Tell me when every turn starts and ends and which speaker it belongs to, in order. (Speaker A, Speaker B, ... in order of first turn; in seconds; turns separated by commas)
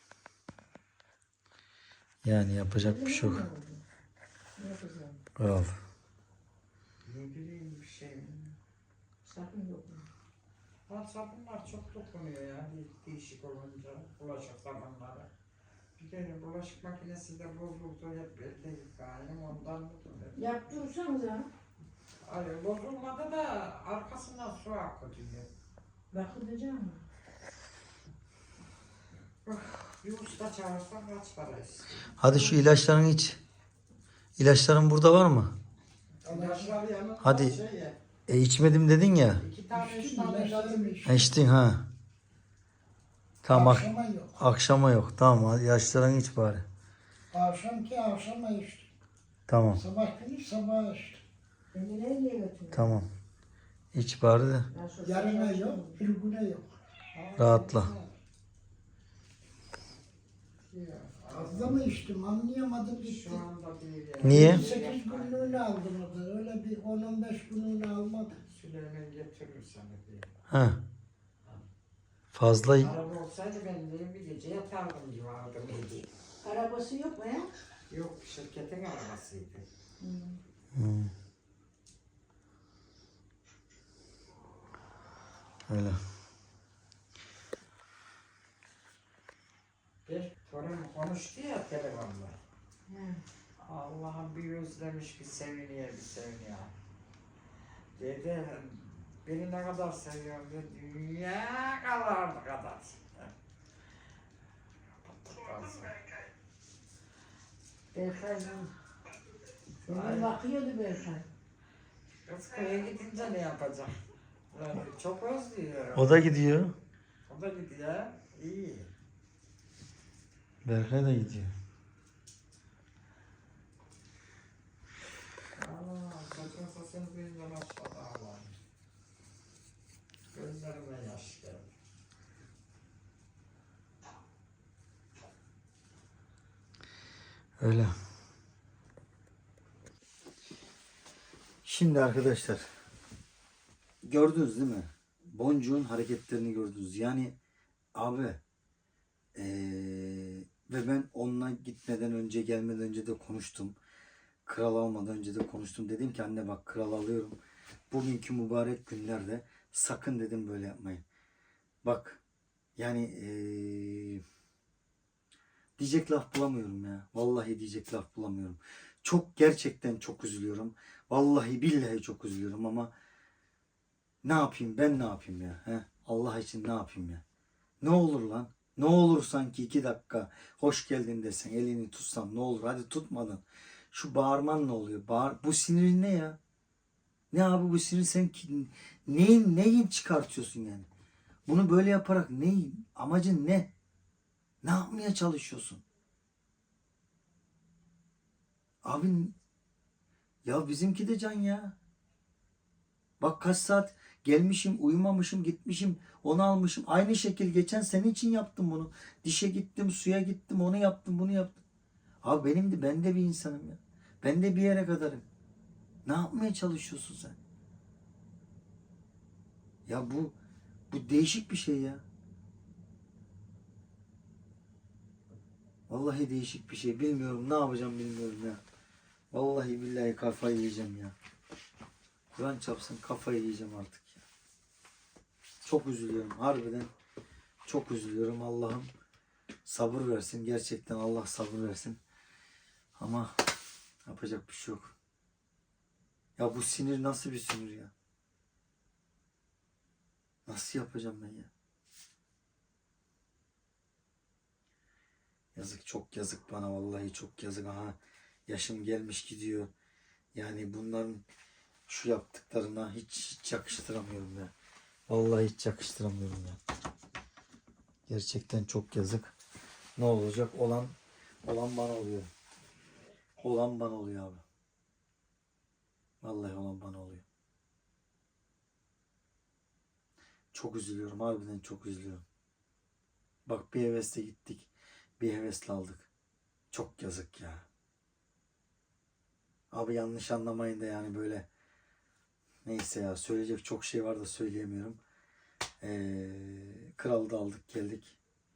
Speaker A: 2.2-3.5, Speaker B: 2.8-3.8, Speaker B: 4.6-5.2, Speaker A: 5.4-5.8, Speaker C: 7.0-8.6, Speaker B: 9.2-10.1, Speaker C: 10.9-15.3, Speaker C: 16.0-20.7, Speaker B: 20.3-21.5, Speaker C: 22.2-25.5, Speaker B: 26.1-27.0, Speaker C: 29.4-32.1, Speaker A: 32.2-33.4, Speaker B: 32.2-32.6, Speaker A: 34.4-35.6, Speaker C: 36.2-38.0, Speaker D: 36.3-36.7, Speaker A: 37.2-37.6, Speaker A: 38.3-39.4, Speaker C: 39.4-41.1, Speaker D: 39.7-41.4, Speaker A: 41.1-41.9, Speaker A: 43.4-46.6, Speaker D: 43.5-44.4, Speaker D: 47.3-48.9, Speaker A: 49.5-49.8, Speaker D: 49.8-51.2, Speaker B: 51.7-52.9, Speaker A: 52.7-53.1, Speaker A: 53.9-54.7, Speaker B: 54.7-56.0, Speaker D: 55.0-56.7, Speaker C: 57.1-57.7, Speaker A: 57.4-57.9, Speaker D: 57.4-58.1, Speaker C: 60.7-61.8, Speaker D: 61.3-63.4, Speaker C: 63.0-65.7, Speaker A: 64.2-64.7, Speaker D: 64.2-68.4, Speaker C: 68.5-70.4, Speaker A: 70.5-70.8, Speaker A: 72.3-72.9, Speaker C: 72.8-76.1, Speaker B: 76.4-77.5, Speaker C: 77.9-79.7, Speaker B: 80.0-80.4, Speaker A: 80.8-81.1, Speaker A: 85.7-86.0, Speaker C: 90.1-92.4, Speaker B: 92.9-93.2, Speaker C: 93.6-96.7, Speaker C: 98.0-103.3, Speaker C: 105.1-106.1, Speaker B: 107.9-108.7, Speaker B: 109.9-111.3, Speaker C: 109.9-110.4, Speaker C: 112.3-114.0, Speaker C: 114.5-116.3, Speaker A: 116.0-116.8, Speaker C: 117.3-118.9, Speaker A: 120.6-121.5, Speaker C: 125.6-128.6, Speaker C: 130.3-131.7, Speaker A: 137.6-137.9, Speaker A: 141.6-142.7, Speaker A: 144.0-147.4, Speaker A: 147.9-148.4, Speaker A: 149.3-153.8, Speaker A: 154.4-157.4, Speaker A: 157.9-161.0, Speaker A: 161.8-162.2, Speaker A: 162.8-164.2, Speaker A: 165.8-172.9, Speaker A: 174.2-177.2, Speaker A: 177.8-186.4, Speaker A: 187.3-190.9, Speaker A: 191.5-193.7, Speaker A: 194.6-195.8, Speaker A: 198.8-199.3, Speaker A: 200.4-201.8, Speaker A: 203.2-211.6, Speaker A: 212.2-215.2, Speaker A: 216.1-217.4, Speaker A: 219.9-220.3, Speaker A: 220.9-222.0, Speaker A: 225.9-228.6, Speaker A: 229.3-231.2, Speaker A: 232.3-234.2, Speaker A: 235.6-236.9, Speaker A: 237.7-238.9, Speaker A: 239.7-242.0, Speaker A: 243.0-243.3, Speaker A: 244.1-244.9, Speaker A: 246.4-247.9, Speaker A: 250.5-251.5, Speaker A: 255.6-259.7, Speaker A: 260.3-261.2, Speaker A: 261.9-264.5, Speaker A: 265.1-266.6, Speaker A: 268.1-269.4, Speaker A: 270.0-272.3, Speaker A: 273.4-274.4, Speaker A: 276.2-277.2, Speaker A: 280.5-282.2, Speaker A: 283.5-286.1, Speaker A: 286.7-287.6, Speaker A: 289.7-291.5, Speaker A: 292.6-295.0, Speaker A: 295.8-298.2